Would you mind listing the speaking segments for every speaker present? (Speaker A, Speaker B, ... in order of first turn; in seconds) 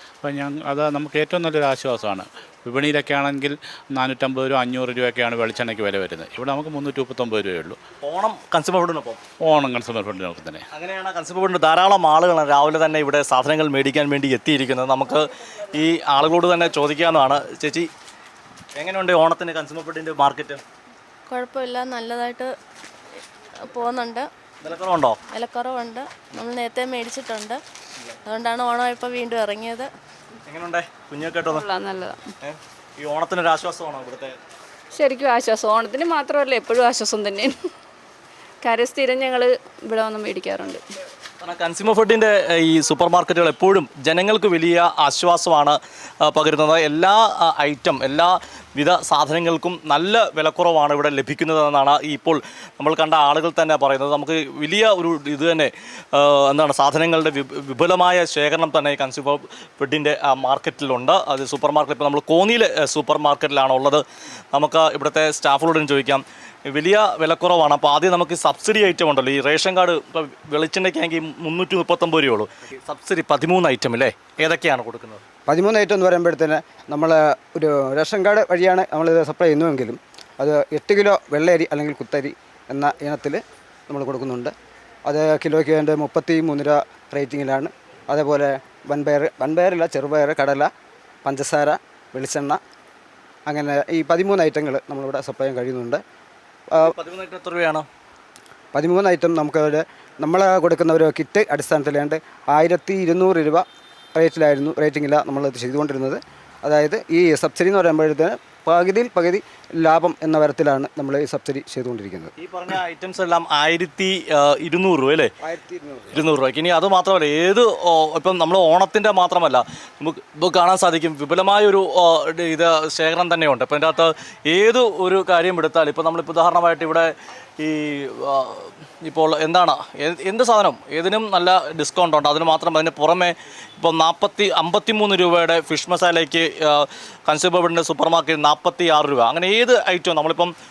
Speaker A: 0.2-7.8, 9.4-10.7
Speaker B: 8.0-9.2, 10.7-17.9, 18.8-20.6, 24.6-25.2, 30.4-31.6, 32.4-34.4, 41.4-75.2, 96.8-97.8, 112.4-115.3, 116.1-140.5
Speaker C: 21.3-22.5, 23.6-24.3, 25.3-27.6, 28.3-29.9
Speaker D: 31.5-32.3, 34.9-37.6, 38.6-40.8
Speaker E: 75.5-84.5, 85.1-90.7, 91.2-92.6, 93.5-96.0, 98.7-103.6, 104.2-112.3, 115.4-116.2